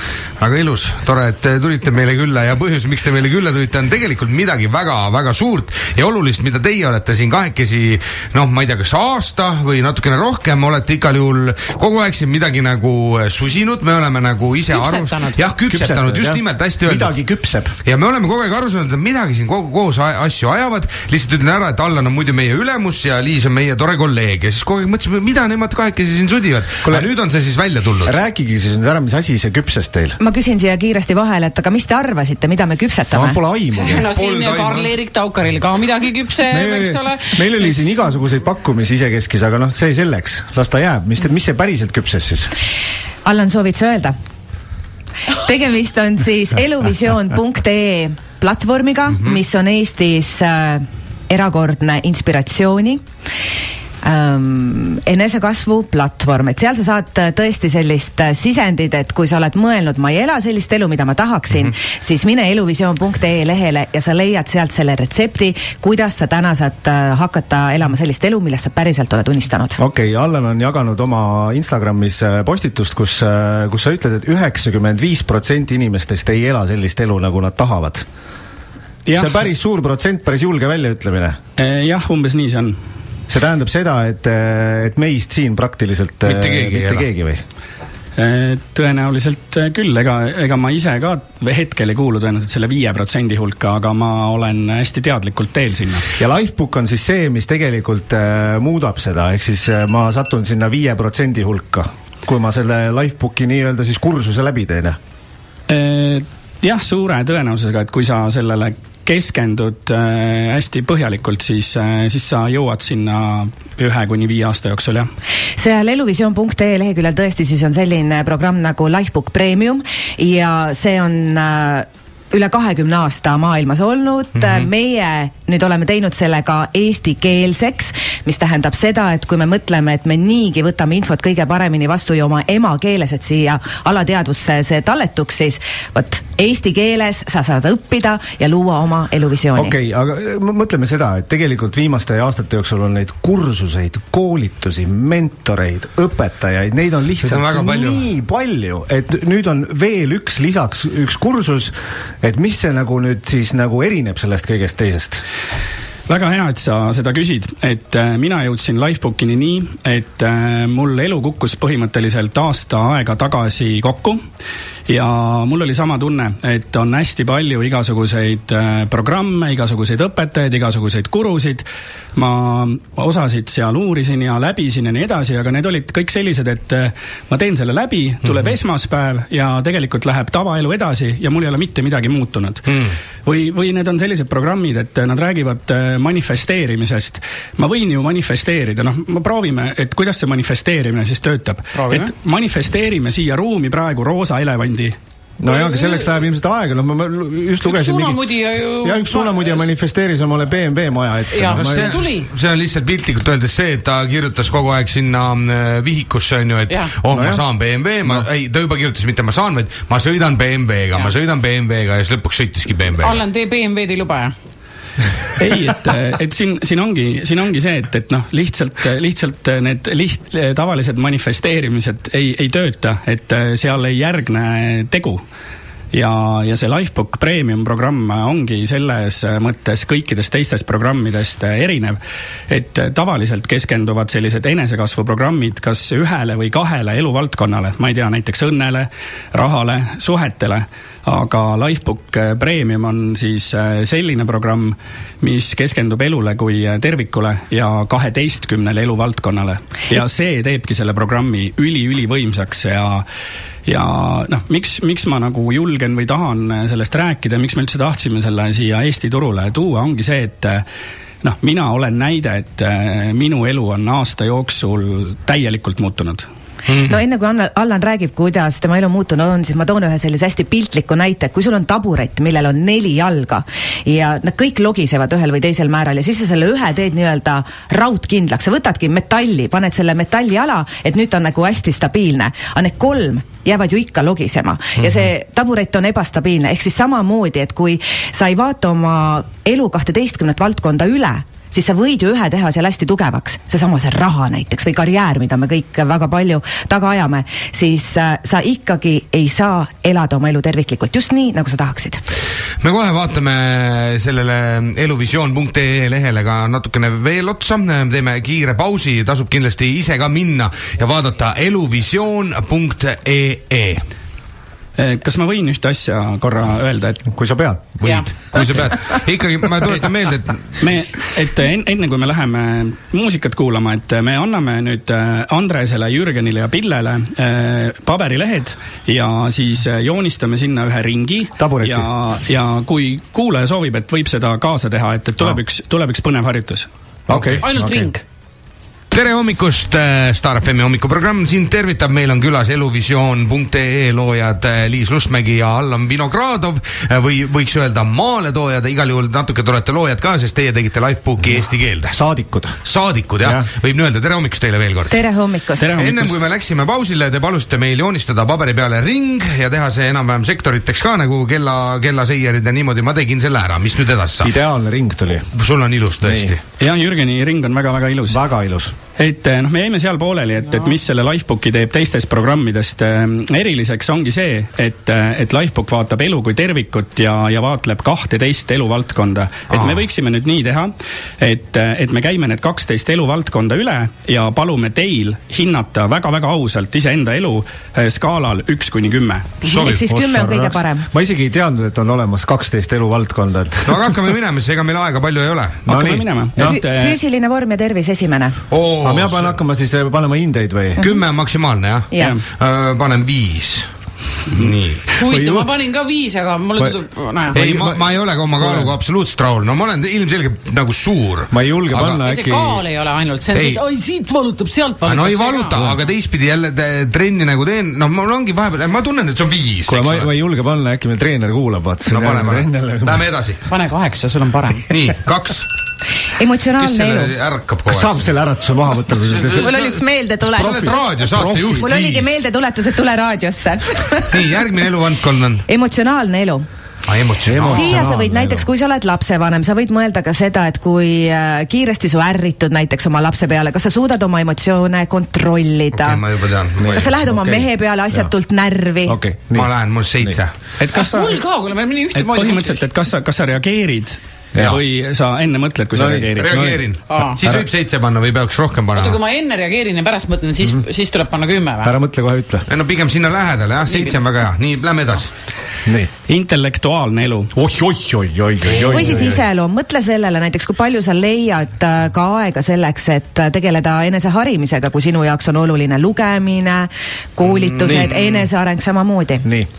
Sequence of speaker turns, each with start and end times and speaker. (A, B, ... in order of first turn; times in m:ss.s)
0:00.4-0:17.2 A
0:14.7-0:15.4 B
0:15.7-0:17.7 C
0:17.8-0:28.2 A
0:26.8-0:27.1 C
0:28.0-0:30.2 C
0:30.2-0:33.4 D
0:33.1-0:34.0 C
0:33.8-0:37.8 B
0:34.1-0:34.9 A
0:36.5-0:42.5 C
0:43.2-0:44.1 D
0:45.3-0:53.0 D
0:49.1-0:49.4 A
0:54.0-1:09.8 D
1:09.8-1:18.0 C
1:19.0-1:19.4 E
1:19.1-1:21.4 C
1:21.6-1:22.8 E
1:23.3-1:27.4 C
1:26.2-1:27.1 A
1:28.2-1:36.1 E
1:36.2-1:45.0 C
1:45.7-1:55.1 E
1:55.6-2:19.7 D
2:04.4-2:04.6 A
2:19.5-2:35.2 C
2:27.2-2:28.1 A
2:36.1-2:44.2 E
2:44.9-3:02.7 E
3:03.2-3:15.0 E
3:11.7-3:12.1 B
3:15.4-3:22.0 C
3:15.4-3:16.1 B
3:17.6-3:19.7 B
3:21.3-3:22.3 B
3:21.5-3:33.2 A
3:26.7-3:27.0 B
3:27.1-3:27.4 C
3:33.0-3:34.3 B
3:35.4-3:45.2 E
3:45.9-4:13.0 E
4:13.6-4:20.6 E
4:21.2-4:26.2 E
4:26.7-4:27.0 A
4:26.7-5:02.0 D
5:02.6-5:13.8 A
5:14.8-5:17.0 E
5:17.0-5:17.7 C
5:17.8-5:20.5 A
5:20.6-5:36.7 E
5:31.4-5:31.9 C
5:37.1-5:37.9 C
5:37.1-5:37.4 A
5:37.4-5:38.0 B
5:38.9-5:52.0 A
5:51.9-5:52.6 C
5:52.6-5:55.0 A
5:53.2-5:53.5 C
5:54.9-5:55.8 D
5:55.6-6:04.3 A
5:55.6-5:56.2 E
6:04.2-6:05.3 C
6:05.3-6:06.4 A
6:06.0-6:06.3 C
6:06.6-6:08.2 E
6:08.1-6:08.8 C
6:09.0-6:29.3 E
6:19.5-6:19.8 A
6:29.4-6:29.9 A
6:29.4-6:30.8 D
6:29.8-6:34.0 C
6:33.6-6:35.7 A
6:35.6-6:37.0 E
6:35.7-6:36.6 C
6:36.4-6:38.4 D
6:38.5-6:39.4 A
6:38.8-6:40.8 C
6:40.8-6:43.7 A
6:41.9-6:42.2 D
6:44.3-6:44.9 A
6:45.0-6:47.4 B
6:45.1-6:45.5 C
6:47.3-6:47.8 C
6:47.3-6:52.0 A
6:48.4-6:48.7 C
6:51.3-6:52.6 C
6:52.0-6:55.7 B
6:53.3-6:53.6 A
6:54.8-7:00.1 A
6:59.7-7:03.1 C
7:01.8-7:03.4 A
7:03.5-7:04.7 B
7:04.7-7:05.5 A
7:06.2-7:07.1 D
7:06.6-7:08.1 A
7:07.7-7:09.6 C
7:09.1-7:09.7 A
7:09.3-7:10.8 D
7:10.3-7:12.2 A
7:10.3-7:11.6 C
7:11.4-7:14.3 D
7:14.1-7:15.4 A
7:15.5-7:16.4 D
7:16.8-7:17.8 A
7:17.2-7:18.5 C
7:17.5-7:26.0 D
7:25.7-7:26.9 A
7:26.6-7:28.1 C
7:26.7-7:29.0 D
7:28.8-7:30.2 C
7:29.3-7:30.3 A
7:30.6-7:31.2 E
7:30.7-7:32.6 B
7:31.9-7:36.3 E
7:34.3-7:34.6 C
7:35.7-7:36.7 C
7:36.2-7:39.0 A
7:36.9-7:37.2 B
7:38.7-7:41.7 B
7:41.6-7:42.4 C
7:42.4-7:45.1 A
7:43.7-7:44.0 B
7:46.1-7:47.3 E
7:47.3-7:49.2 C
7:48.4-7:49.2 A
7:48.6-7:59.2 D
7:57.6-7:58.0 C